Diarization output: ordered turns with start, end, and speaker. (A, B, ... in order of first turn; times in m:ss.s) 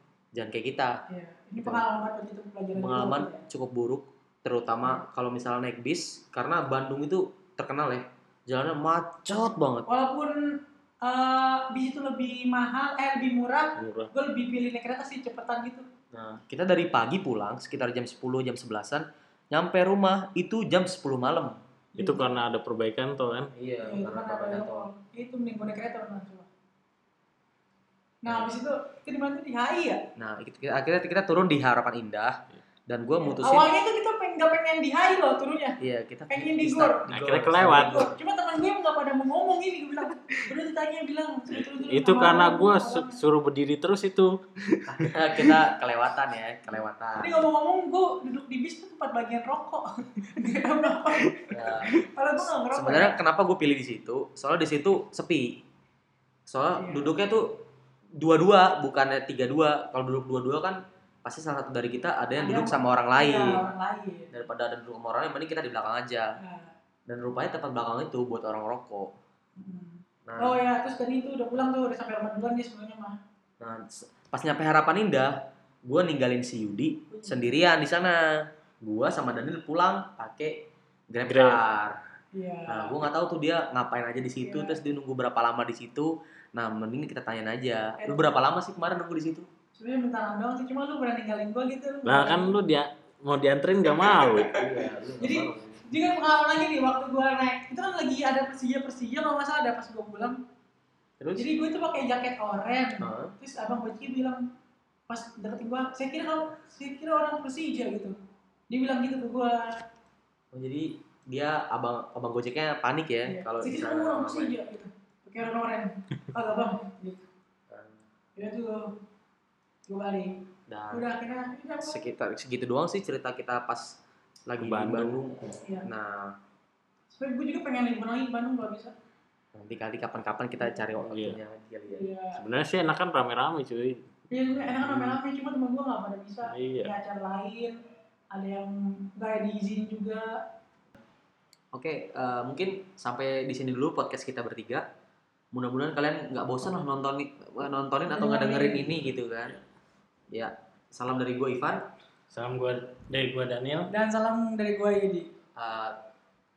0:00.3-0:00.9 A
0:01.1-0:03.4 B
0:01.6-0:01.8 A
0:02.7-0:09.8 A
0:09.9-0:15.8 B
0:13.8-0:14.1 C
0:16.1-0:21.6 A
0:22.0-0:22.3 B
0:22.0-0:23.5 C
0:23.5-0:24.9 A
0:23.8-0:26.5 B
0:28.2-0:30.0 B
0:30.2-0:32.4 A
0:32.9-0:33.7 A
0:33.2-0:35.8 B
0:35.8-0:38.1 A
0:36.3-0:37.0 B
0:37.1-0:38.1 C
0:37.6-0:43.2 B
0:41.6-0:45.6 C
0:44.9-0:47.4 A
0:47.2-0:53.2 B
0:51.5-0:51.9 A
0:52.7-0:55.6 A
0:56.5-0:57.6 A
0:56.8-0:57.1 B
0:58.2-1:03.6 A
1:02.3-1:04.3 B
1:04.3-1:06.3 A
1:06.4-1:06.7 B
1:07.1-1:09.1 A
1:09.6-1:13.2 B
1:10.2-1:10.6 A
1:13.6-1:15.4 A
1:15.9-1:21.9 A
1:17.1-1:17.5 B
1:21.2-1:21.6 C
1:22.3-1:23.0 B
1:22.7-1:29.5 A
1:24.4-1:24.8 B
1:28.0-1:28.3 B
1:29.7-1:32.6 B
1:32.0-1:34.6 C
1:34.5-1:35.8 A
1:35.2-1:40.4 B
1:41.2-1:41.5 A
1:41.4-1:44.4 B
1:43.0-1:43.3 A
1:45.1-1:48.1 B
1:48.7-1:49.8 B
1:50.5-1:54.5 A
1:53.3-1:57.3 B
1:57.7-1:58.0 A
1:58.4-1:58.9 B
1:59.9-2:02.0 B
2:00.7-2:01.1 A
2:01.8-2:06.3 A
2:04.6-2:05.2 C
2:07.1-2:08.9 B
2:09.5-2:12.1 A
2:11.0-2:11.4 C
2:11.9-2:12.4 B
2:12.3-2:14.1 C
2:14.3-2:17.7 B
2:14.7-2:15.1 C
2:16.4-2:16.9 C
2:18.3-2:20.2 B
2:21.7-2:24.8 A
2:25.5-2:29.6 A
2:28.1-2:29.0 B
2:30.3-2:31.9 A
2:32.3-2:33.9 C
2:33.9-2:35.3 B
2:35.6-2:36.0 A